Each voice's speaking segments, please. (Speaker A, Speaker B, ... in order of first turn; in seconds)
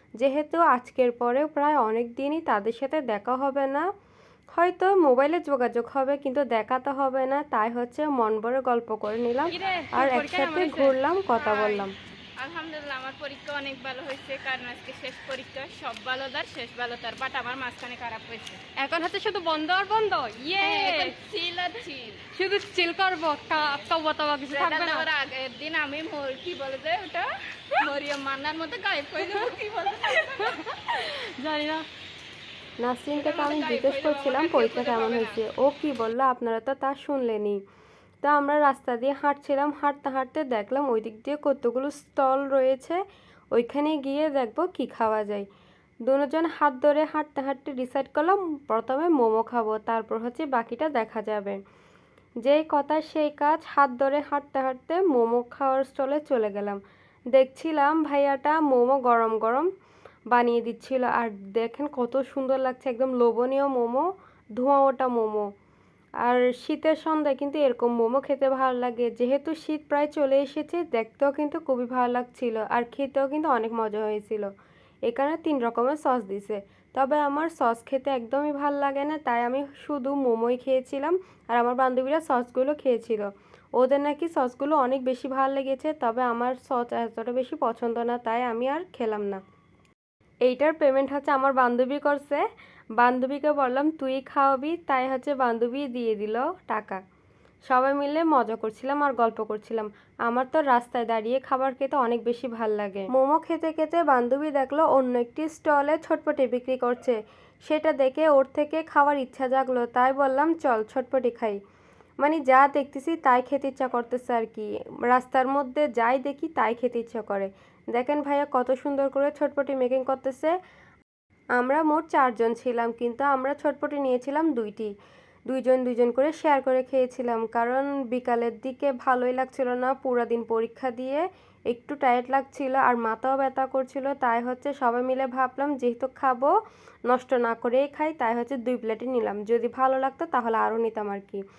Speaker A: 0.2-3.9, 4.5-11.9, 32.8-37.6, 38.2-43.0, 43.5-45.4, 46.0-51.6, 52.4-56.8, 57.3-59.7, 60.3-64.0, 64.6-65.5, 66.2-74.5, 75.1-89.4, 90.4-92.4, 93.0-97.0, 97.7-111.6, 112.2-120.5, 121.6-124.9, 125.5-136.5, 137.1-141.4
Speaker B: 9.5-10.9, 18.7-21.1, 22.3-25.1, 30.4-31.8
Speaker C: 9.5-9.9, 11.4-18.6, 20.6-22.2, 24.5-31.0, 33.1-35.4